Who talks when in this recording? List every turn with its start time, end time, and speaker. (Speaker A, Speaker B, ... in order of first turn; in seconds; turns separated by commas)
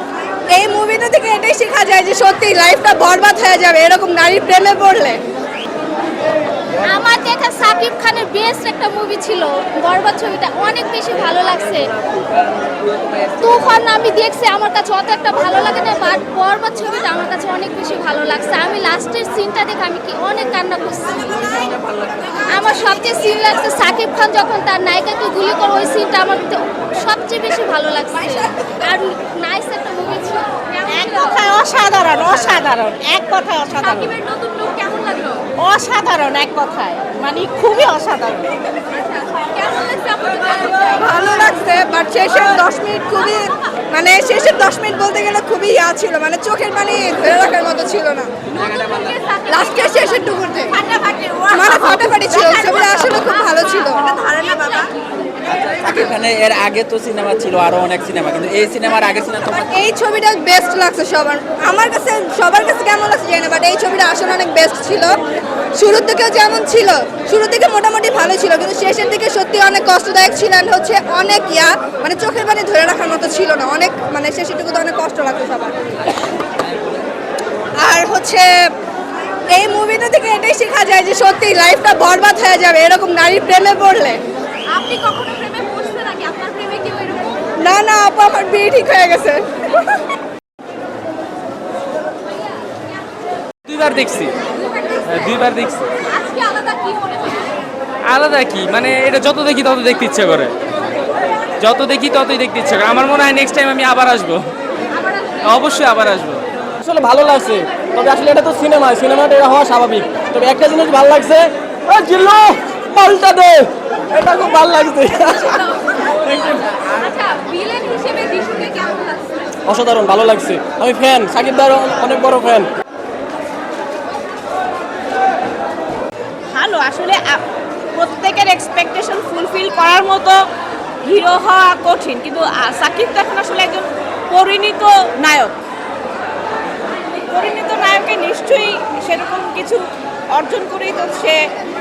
Speaker A: 0.5-5.2, Speaker B: 6.8-11.9, Speaker B: 13.4-21.7, Speaker B: 22.5-31.4, Speaker C: 30.9-34.2, Speaker B: 34.1-35.4, Speaker C: 35.6-38.6, Speaker B: 38.9-41.0, Speaker A: 40.9-48.3, Speaker B: 48.6-49.5, Speaker A: 49.5-50.8, Speaker C: 50.8-53.0, Speaker A: 51.5-54.9, Speaker B: 54.4-54.8, Speaker D: 55.5-59.7, Speaker A: 59.7-65.1, Speaker A: 65.8-75.8, Speaker A: 77.8-78.5, Speaker A: 79.5-84.2, Speaker B: 84.7-87.4, Speaker A: 87.6-89.8, Speaker E: 93.7-94.3, Speaker E: 95.1-95.9, Speaker B: 96.2-97.4, Speaker E: 98.1-100.5, Speaker E: 101.6-104.5, Speaker E: 105.4-106.4, Speaker F: 106.8-116.7, Speaker B: 116.9-119.2, Speaker F: 119.7-122.7, Speaker C: 126.5-127.4, Speaker C: 128.0-130.4, Speaker C: 131.1-135.5, Speaker C: 137.3-141.4